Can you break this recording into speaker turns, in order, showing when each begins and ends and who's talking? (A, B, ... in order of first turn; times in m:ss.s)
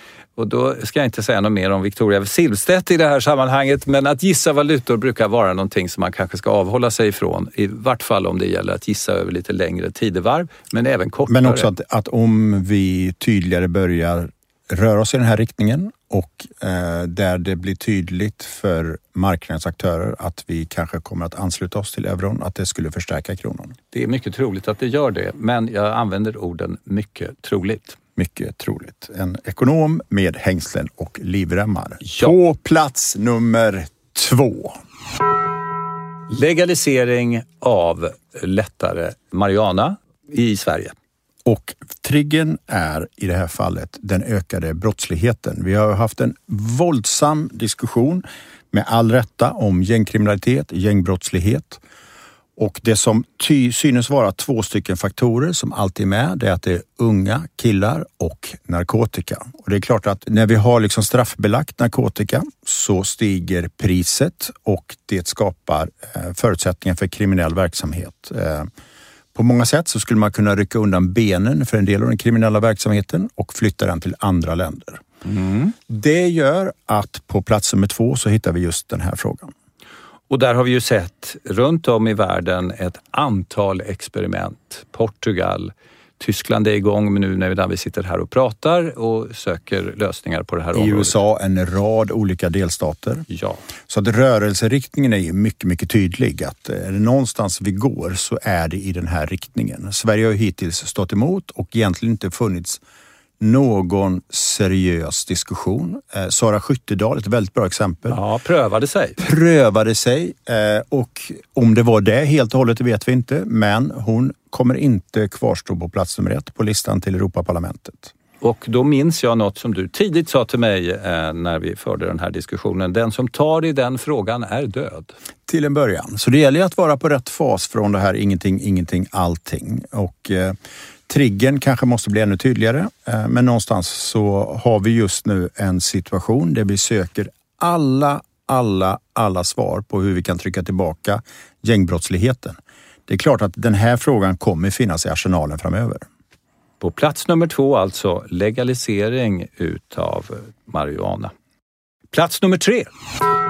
0:00.4-0:11.7 A
0:11.3-0:23.8 B
0:23.9-0:28.0 A
0:28.2-0:34.8 B
0:32.0-0:32.4 A
0:36.3-0:40.9 A
0:41.4-0:51.8 B
0:52.6-1:08.7 B
1:09.4-1:15.0 B
1:15.2-1:15.8 A
1:15.9-1:19.5 B
1:20.3-1:31.2 A
1:30.8-1:33.3 B
1:33.3-1:33.6 A
1:33.9-1:42.8 B
1:43.4-1:48.2 B
1:48.1-1:49.2 A
1:49.2-1:58.1 B
1:58.4-2:05.2 A
2:05.5-2:26.0 B
2:26.8-2:31.3 A
2:32.1-2:32.9 A